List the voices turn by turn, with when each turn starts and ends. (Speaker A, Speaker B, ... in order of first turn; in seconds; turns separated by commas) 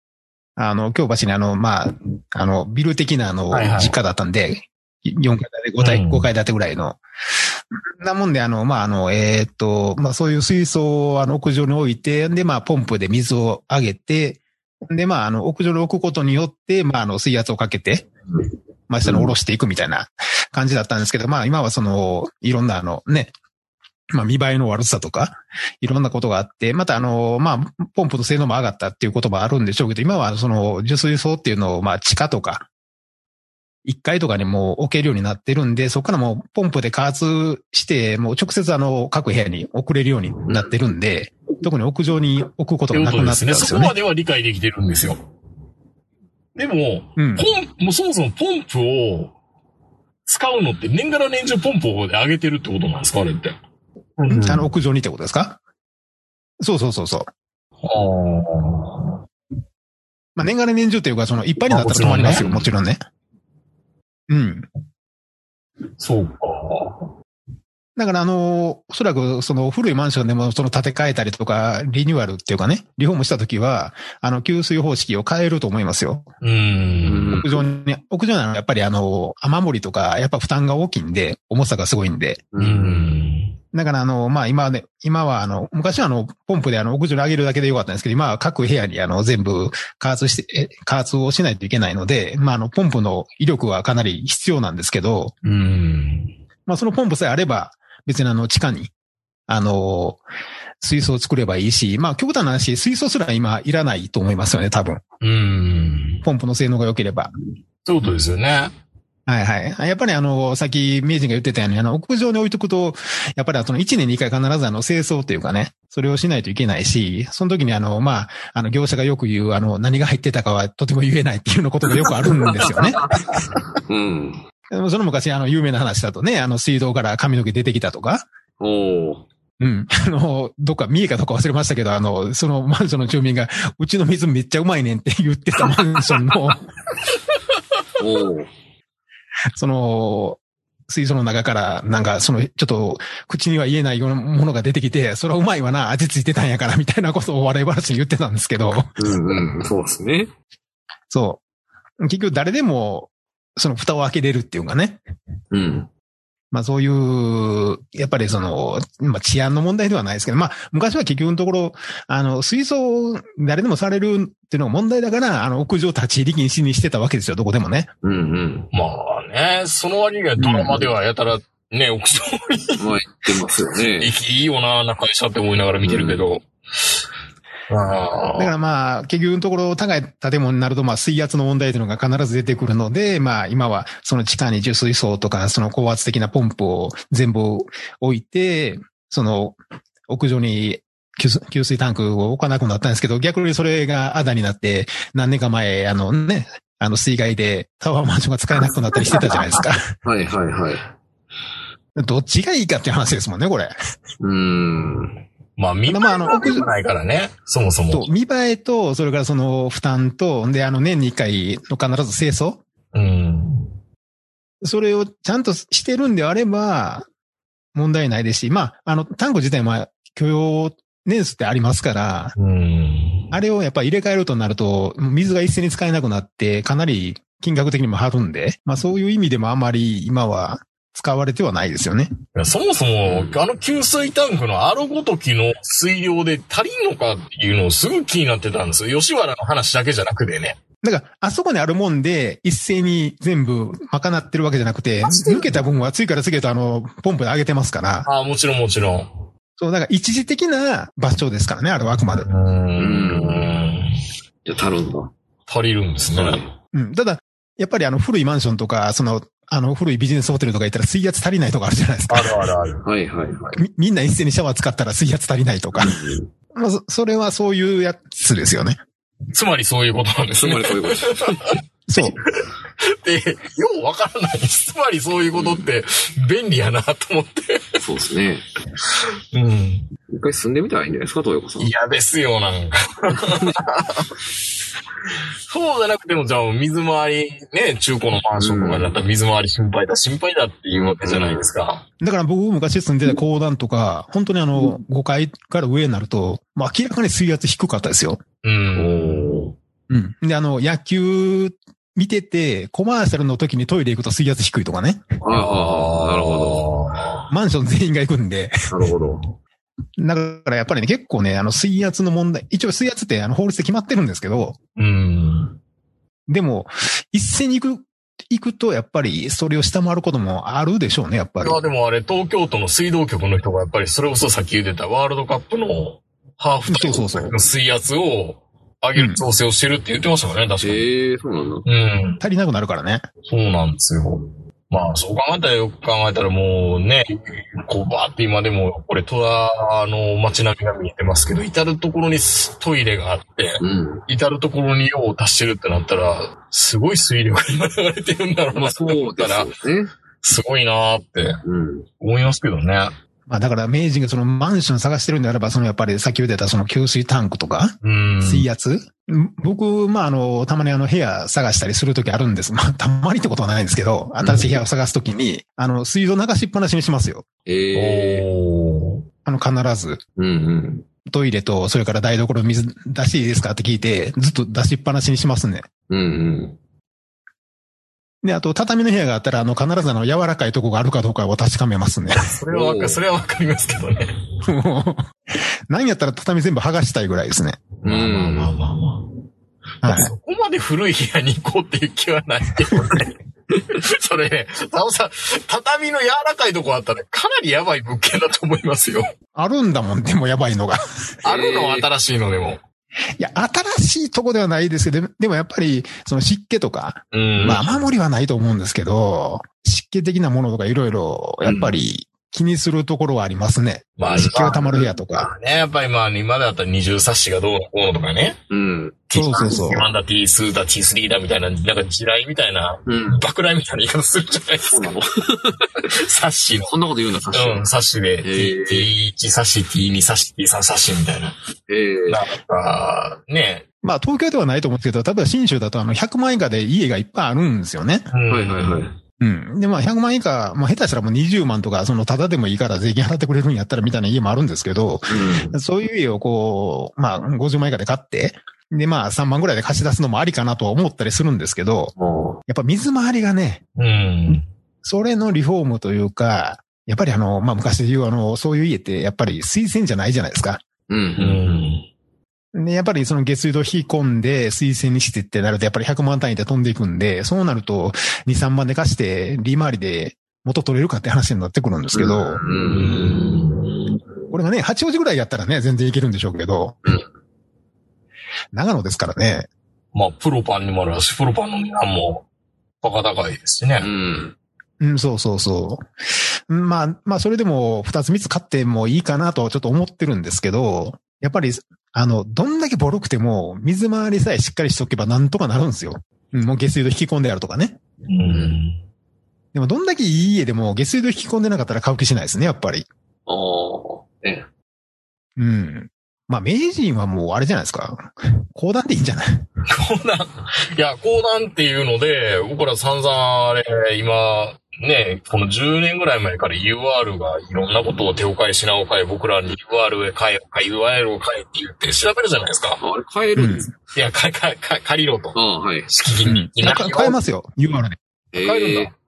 Speaker A: 0.6-7.0, Speaker B: 3.5-3.9, Speaker B: 5.8-6.3, Speaker A: 8.0-18.1, Speaker A: 18.9-23.3, Speaker C: 19.0-19.3, Speaker A: 24.1-32.7, Speaker A: 33.8-44.0, Speaker C: 40.4-40.7, Speaker B: 42.9-45.2, Speaker B: 46.5-49.3, Speaker A: 47.2-47.5, Speaker B: 50.2-53.6, Speaker B: 54.2-54.7, Speaker A: 54.3-55.6, Speaker A: 56.6-57.3, Speaker B: 57.8-59.2, Speaker A: 60.4-63.0, Speaker B: 61.7-62.7, Speaker A: 64.3-64.7, Speaker B: 66.0-67.1, Speaker A: 68.0-76.3, Speaker B: 76.4-77.4, Speaker C: 77.0-77.5, Speaker A: 77.3-82.4, Speaker C: 82.5-83.2, Speaker B: 82.6-83.5, Speaker A: 83.7-95.3, Speaker B: 95.4-96.3, Speaker A: 96.7-98.9, Speaker A: 99.5-100.2, Speaker A: 100.8-105.0, Speaker B: 105.2-106.2, Speaker A: 106.2-107.3, Speaker B: 107.8-108.7, Speaker A: 109.3-123.0, Speaker C: 122.0-124.4, Speaker A: 124.7-128.2, Speaker C: 128.6-129.2, Speaker A: 129.6-136.6, Speaker B: 137.1-137.8, Speaker C: 138.0-138.5, Speaker A: 139.6-148.9, Speaker C: 149.0-150.3, Speaker A: 151.1-151.4, Speaker A: 152.0-155.0, Speaker C: 155.5-155.9, Speaker A: 156.5-167.9, Speaker C: 168.0-168.7, Speaker B: 168.7-172.9, Speaker A: 170.4-170.7, Speaker C: 172.8-174.1, Speaker B: 173.9-177.0, Speaker C: 175.8-176.2, Speaker B: 177.7-178.5, Speaker A: 178.4-189.6, Speaker A: 190.1-199.9, Speaker C: 200.0-200.8, Speaker A: 201.9-203.7, Speaker C: 204.2-205.2, Speaker B: 205.6-208.1, Speaker A: 205.9-206.7, Speaker A: 207.9-212.6, Speaker B: 212.9-213.7, Speaker A: 214.6-217.1, Speaker A: 217.7-222.3, Speaker B: 222.4-223.3, Speaker A: 223.3-232.1, Speaker B: 232.3-240.6, Speaker C: 233.0-233.4, Speaker A: 240.8-248.1, Speaker B: 245.0-245.7, Speaker B: 248.1-249.2, Speaker A: 249.6-252.3, Speaker B: 252.1-253.9, Speaker C: 252.8-253.6, Speaker C: 254.4-255.1, Speaker B: 255.5-256.4, Speaker C: 256.1-256.5, Speaker A: 256.7-262.4, Speaker B: 262.1-262.8, Speaker C: 262.8-263.6, Speaker A: 263.6-266.0, Speaker C: 265.8-266.3, Speaker A: 266.5-268.8, Speaker B: 269.3-277.8, Speaker C: 270.3-271.5, Speaker A: 271.9-272.2, Speaker C: 275.3-275.7, Speaker C: 277.8-278.4, Speaker B: 278.9-279.9, Speaker C: 280.1-281.7, Speaker B: 281.6-284.1, Speaker C: 283.2-283.6, Speaker B: 285.5-291.8, Speaker C: 288.4-289.0, Speaker C: 290.7-291.5, Speaker A: 292.0-298.2, Speaker B: 298.4-299.4, Speaker C: 298.7-299.5, Speaker A: 299.9-305.1, Speaker C: 305.2-306.6, Speaker B: 305.3-307.3, Speaker A: 307.3-308.6, Speaker C: 308.7-309.3, Speaker A: 310.0-314.6, Speaker B: 314.8-315.6, Speaker A: 316.3-321.6, Speaker B: 321.4-330.9, Speaker A: 326.7-327.4, Speaker A: 328.9-329.2, Speaker C: 330.6-331.6, Speaker B: 331.6-332.2, Speaker A: 332.2-333.1, Speaker B: 333.2-349.5, Speaker C: 343.6-344.0, Speaker C: 348.5-349.9, Speaker B: 350.2-351.4, Speaker C: 351.4-351.9, Speaker B: 352.0-352.9, Speaker A: 353.3-367.2, Speaker B: 357.8-358.5, Speaker C: 364.2-364.5, Speaker C: 367.4-368.2, Speaker B: 367.7-369.1, Speaker A: 369.2-370.0, Speaker C: 370.2-370.9, Speaker A: 371.1-375.7, Speaker C: 375.9-376.6, Speaker A: 378.2-382.3, Speaker B: 382.2-384.1, Speaker C: 382.5-383.0, Speaker A: 384.4-387.6, Speaker B: 387.8-389.1, Speaker C: 387.8-388.5, Speaker A: 389.8-390.1, Speaker B: 389.8-393.1, Speaker B: 393.7-399.1, Speaker A: 399.3-400.8, Speaker B: 401.2-402.6, Speaker C: 401.2-401.9, Speaker A: 403.2-415.3, Speaker B: 407.1-407.8, Speaker C: 411.4-411.7, Speaker B: 414.0-418.4, Speaker C: 414.1-414.4, Speaker C: 418.5-419.6, Speaker B: 419.1-424.9, Speaker A: 419.1-419.9, Speaker C: 422.9-423.2, Speaker C: 424.6-425.9, Speaker B: 425.8-426.7, Speaker C: 426.6-427.7, Speaker B: 427.3-431.4, Speaker C: 428.2-428.9, Speaker C: 431.7-432.2, Speaker B: 432.1-433.6, Speaker A: 433.8-438.1, Speaker B: 438.1-438.9, Speaker C: 438.3-438.9, Speaker A: 439.2-451.9, Speaker C: 445.1-445.6, Speaker C: 451.9-452.4, Speaker A: 452.5-453.6, Speaker B: 453.8-454.5, Speaker A: 454.3-460.6, Speaker C: 460.9-461.6, Speaker B: 461.2-461.9, Speaker A: 462.5-472.4, Speaker C: 471.9-473.5, Speaker B: 472.5-473.9, Speaker A: 474.3-476.8, Speaker A: 478.5-479.5, Speaker B: 479.9-482.2, Speaker B: 482.8-483.9, Speaker C: 483.8-484.3, Speaker A: 484.8-485.8, Speaker A: 486.5-497.8, Speaker B: 498.1-498.8, Speaker C: 498.3-498.6, Speaker A: 499.5-502.9, Speaker C: 503.3-504.5, Speaker A: 505.4-509.4, Speaker B: 509.7-522.8, Speaker C: 522.8-523.8, Speaker A: 523.4-523.7, Speaker B: 523.9-525.4, Speaker C: 525.3-525.9, Speaker B: 525.9-527.2, Speaker A: 526.3-528.0, Speaker C: 528.3-528.9, Speaker B: 528.4-528.9